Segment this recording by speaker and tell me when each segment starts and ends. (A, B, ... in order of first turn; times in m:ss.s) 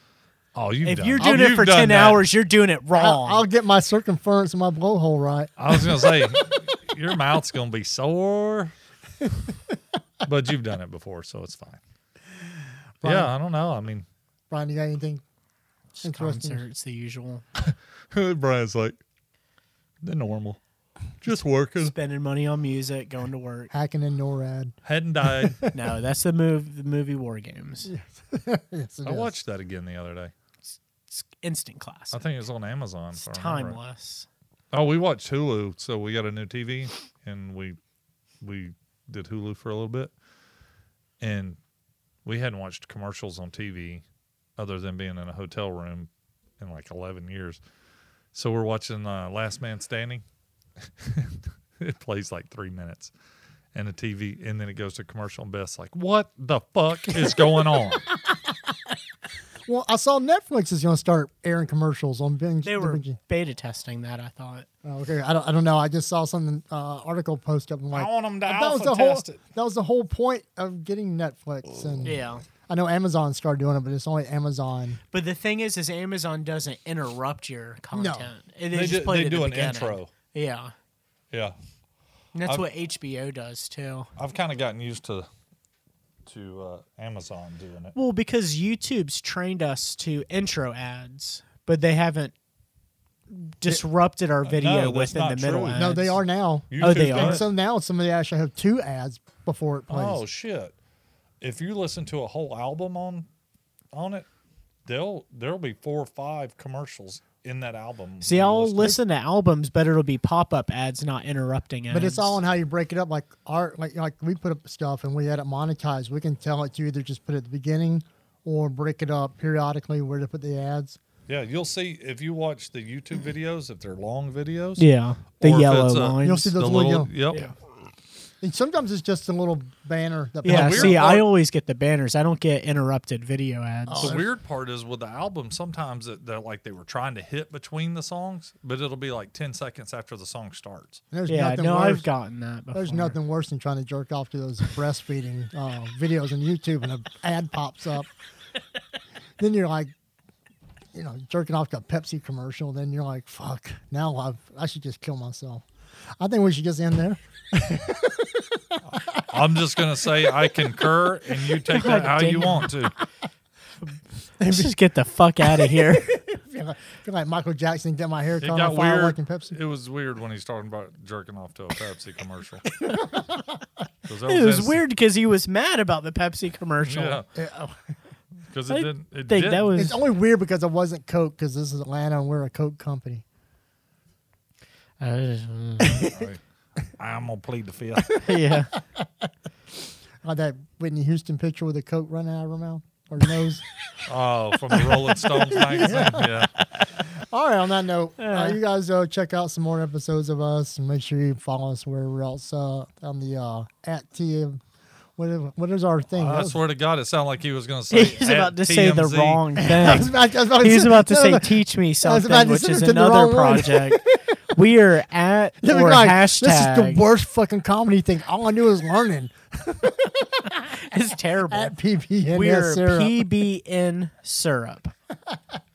0:00.5-0:02.2 A
0:00.8-0:03.4 B
0:02.9-0:06.3 C
0:05.6-0:08.7 A
0:10.2-0:11.8 A
0:13.0-0:13.3 C
0:13.0-0:14.1 A
0:14.5-0:15.2 C
0:16.0-0:17.4 B
0:16.0-0:16.6 C
0:17.6-0:19.0 A
0:20.0-0:20.6 A
0:21.2-0:21.9 A
0:21.8-0:23.7 B
0:23.7-0:24.8 C
0:24.8-0:25.6 A
0:25.4-0:25.7 C
0:25.7-0:27.9 B
0:27.9-0:29.3 C
0:29.0-0:30.3 A
0:31.1-0:32.2 B
0:32.1-0:33.8 A
0:33.2-0:34.3 B
0:34.7-0:37.8 A
0:38.4-0:40.1 A
0:41.2-0:41.6 A
0:42.2-0:44.0 A
0:44.6-0:47.6 A
0:48.3-0:50.2 A
0:50.8-0:53.1 A
0:53.7-0:58.0 A
0:57.2-0:58.6 C
0:59.7-1:03.2 C
1:02.6-1:04.7 B
1:04.8-1:15.0 C
1:07.9-1:09.4 A
1:11.8-1:12.1 A
1:12.0-1:12.4 B
1:15.1-1:20.8 B
1:17.9-1:18.3 C
1:18.7-1:20.1 A
1:22.4-1:24.1 B
1:24.2-1:25.3 A
1:26.3-1:28.0 A
1:28.0-1:32.3 B
1:33.3-1:36.2 B
1:34.4-1:35.9 A
1:35.8-1:40.2 C
1:36.7-1:37.5 A
1:36.8-1:37.5 B
1:39.9-1:40.7 A
1:41.4-1:43.3 A
1:43.9-1:44.3 A
1:44.9-1:49.0 A
1:48.2-1:52.4 B
1:51.9-2:01.0 C
2:01.3-2:04.9 A
2:04.8-2:06.5 B
2:05.4-2:07.5 A
2:06.2-2:07.1 C
2:08.4-2:11.0 C
2:10.4-2:14.2 B
2:10.4-2:11.2 A
2:13.9-2:14.2 C
2:14.0-2:21.0 A
2:21.1-2:22.0 C
2:21.3-2:23.2 B
2:22.7-2:28.1 C
2:29.4-2:29.9 C
2:30.9-2:35.6 C
2:36.2-2:39.2 C
2:39.3-2:42.9 A
2:41.7-2:42.7 B
2:44.4-2:44.7 C
2:44.4-2:46.2 B
2:45.6-2:49.6 C
2:48.4-2:52.7 A
2:52.8-2:53.6 C
2:54.1-2:54.8 A
2:54.3-2:57.2 B
2:56.8-2:57.3 A
2:57.4-2:58.0 C
2:58.5-2:59.8 A
2:58.7-3:00.0 B
2:59.8-3:03.2 C
3:05.0-3:06.1 B
3:05.8-3:06.3 C
3:06.0-3:06.4 A
3:07.0-3:08.2 A
3:08.2-3:08.7 B
3:10.2-3:13.6 C
3:14.0-3:16.5 A
3:14.8-3:16.4 C
3:16.6-3:16.9 B
3:17.0-3:24.6 C
3:18.2-3:18.6 B
3:25.2-3:26.6 C
3:26.2-3:29.4 A
3:27.9-3:37.0 B
3:29.6-3:34.4 C
3:35.6-3:40.8 C
3:40.8-3:41.7 B
3:41.5-3:43.2 C
3:42.3-3:44.9 B